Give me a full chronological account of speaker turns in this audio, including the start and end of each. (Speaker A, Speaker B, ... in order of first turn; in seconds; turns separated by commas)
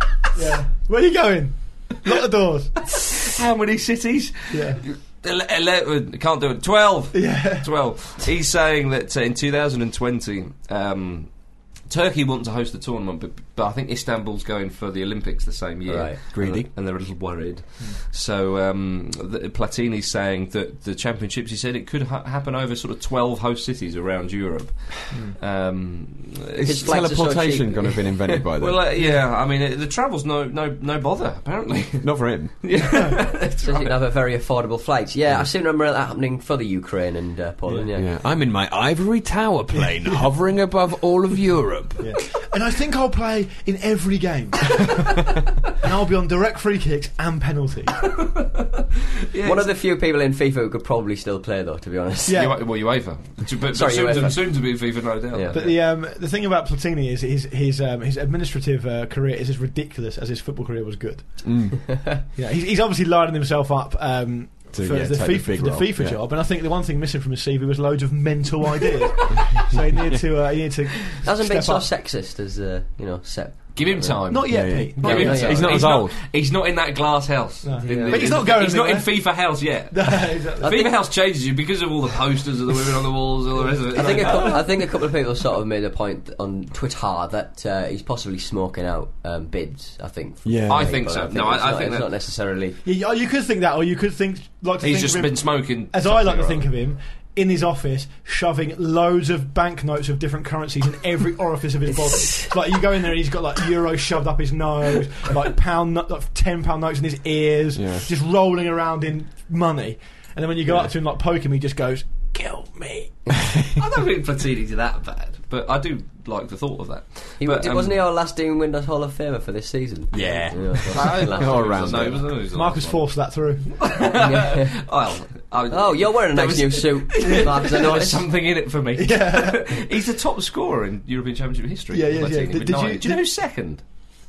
Speaker A: 0.3-3.1, Speaker B: 3.2-27.2, Speaker A: 4.5-4.8, Speaker A: 7.1-7.7, Speaker C: 15.9-16.2, Speaker D: 16.3-16.7, Speaker A: 25.1-25.4, Speaker D: 26.5-28.8, Speaker C: 26.6-28.4, Speaker B: 28.6-34.0, Speaker A: 29.0-29.2, Speaker D: 32.0-32.7, Speaker C: 33.5-38.1, Speaker D: 37.9-42.2, Speaker A: 39.7-40.2, Speaker A: 42.0-48.1, Speaker B: 49.3-49.7, Speaker C: 49.4-52.4, Speaker A: 52.2-52.6, Speaker B: 52.3-55.8, Speaker C: 53.7-55.7, Speaker A: 55.5-61.8, Speaker D: 61.4-62.1, Speaker A: 62.3-71.8, Speaker D: 64.7-66.2, Speaker C: 71.2-75.8, Speaker B: 73.7-84.7, Speaker A: 74.3-75.8, Speaker D: 74.5-76.2, Speaker A: 77.6-80.9, Speaker C: 77.8-78.4, Speaker C: 80.6-81.0, Speaker A: 83.7-84.6, Speaker C: 83.9-92.8, Speaker D: 90.4-91.0, Speaker B: 90.7-92.1, Speaker A: 92.8-113.3, Speaker B: 94.8-96.7, Speaker C: 101.9-102.5, Speaker D: 107.7-108.1, Speaker B: 113.8-118.0, Speaker C: 117.4-122.2, Speaker D: 120.1-122.3, Speaker B: 120.9-123.1, Speaker A: 122.5-123.9, Speaker B: 123.8-133.8, Speaker C: 124.0-124.8, Speaker C: 125.7-128.2, Speaker A: 129.0-129.8, Speaker A: 131.9-133.2